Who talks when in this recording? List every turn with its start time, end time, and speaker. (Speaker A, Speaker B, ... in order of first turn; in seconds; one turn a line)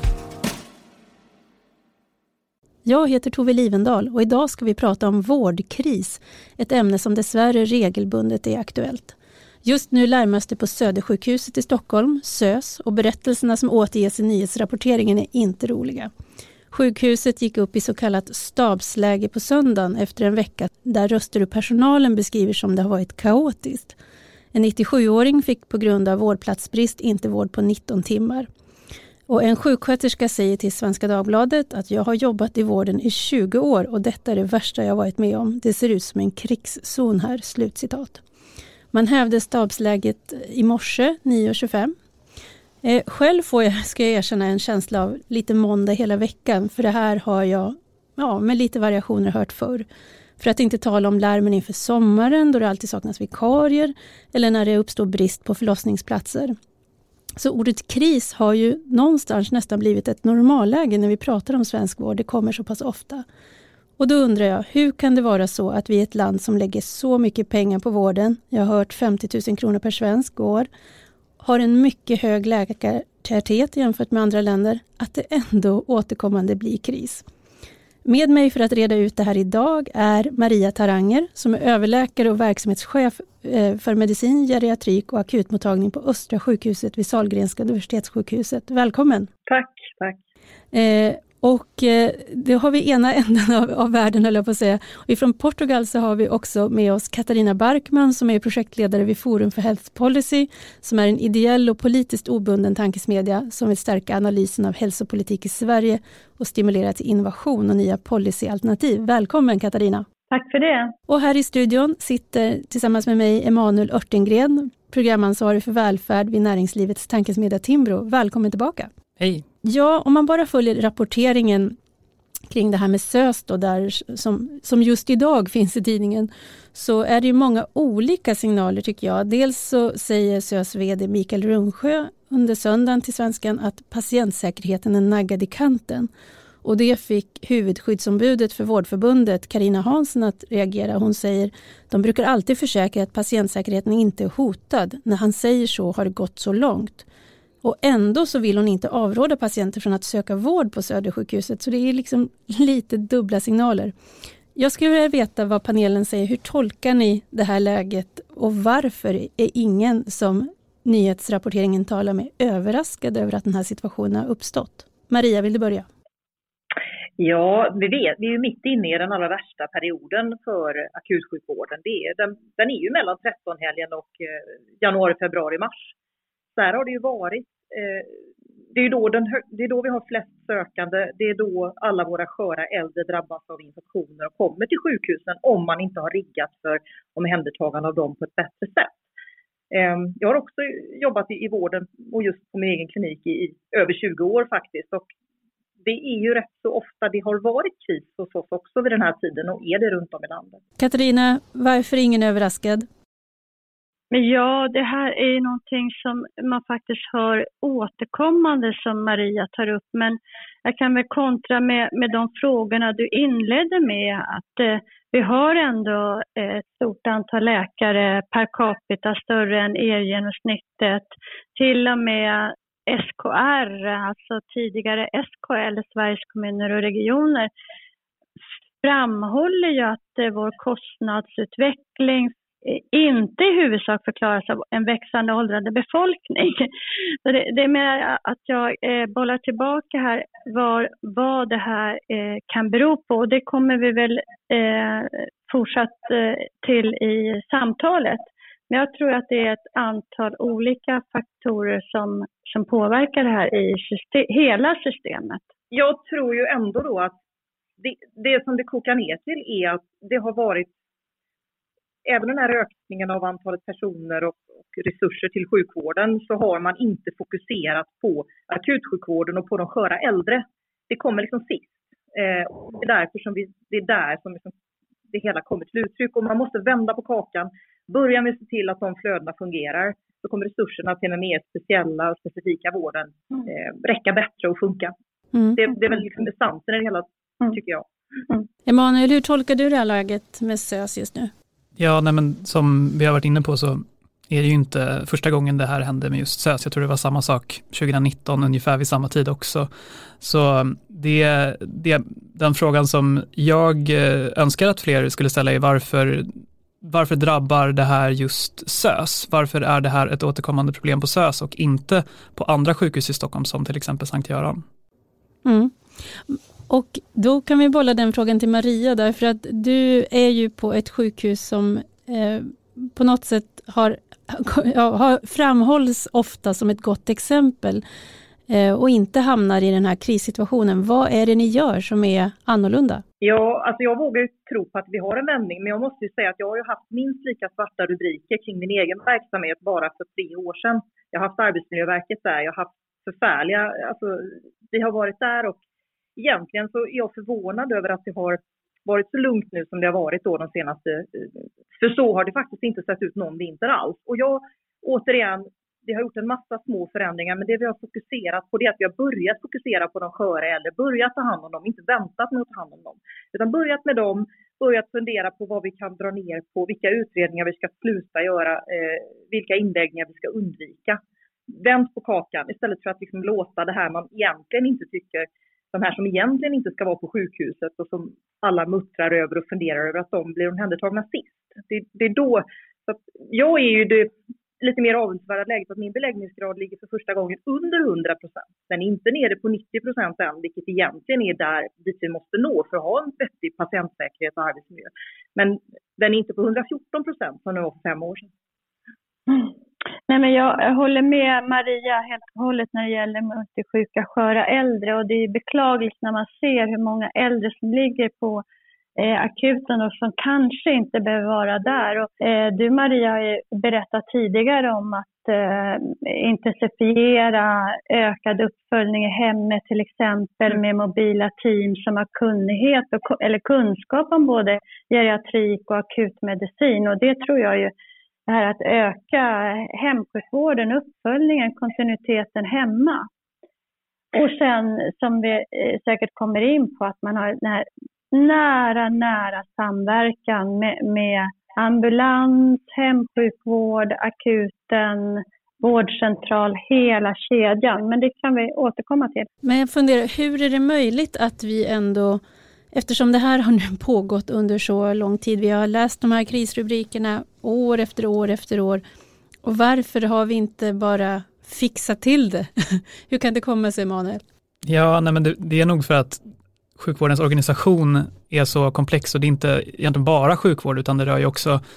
Speaker A: 2.8-16.1
Speaker A: 16.7-24.0
Speaker A: 24.5-28.5
Speaker A: 29.3-38.2
Speaker A: 38.9-41.9
Speaker A: 42.8-49.9
Speaker A: 50.4-56.5
Speaker A: 57.4-63.2
Speaker A: 64.0-70.7
Speaker A: 71.4-77.2
Speaker A: 78.0-89.3
Speaker B: 89.5-90.2
Speaker A: 90.7-110.0
Speaker C: 110.3-110.9
Speaker A: 111.1-118.9
Speaker D: 119.2-119.4
Speaker A: 119.6-121.8
Speaker A: 122.5-136.1
Speaker A: 136.6-147.1
Speaker A: 147.6-153.9
Speaker A: 154.5-165.8
Speaker B: 167.2-175.9
Speaker B: 176.5-178.1
Speaker B: 178.7-189.0
Speaker B: 189.7-195.1
Speaker B: 195.8-200.6
Speaker A: 200.8-202.9
Speaker C: 204.1-227.5
Speaker C: 228.8-236.7
Speaker C: 237.2-255.4
Speaker B: 255.7-257.1
Speaker B: 257.8-260.7
Speaker B: 262.0-274.5
Speaker B: 275.1-284.9
Speaker B: 285.6-287.9
Speaker A: 288.7-291.3
Speaker D: 291.8-299.7
Speaker D: 300.2-314.6
Speaker A: 315.4-315.7
Speaker A: 316.3-327.8
Speaker A: 328.5-333.0
Speaker B: 333.2-345.6
Speaker B: 346.1-398.3
Speaker C: 399.3-399.5
Speaker C: 400.1-408.4
Speaker C: 409.0-427.7
Speaker C: 428.3-433.1
Speaker C: 434.1-449.3
Speaker A: 449.4-452.2
Speaker A: 452.7-458.8
Speaker A: 459.4-464.2
Speaker D: 464.6-466.2
Speaker D: 466.8-471.6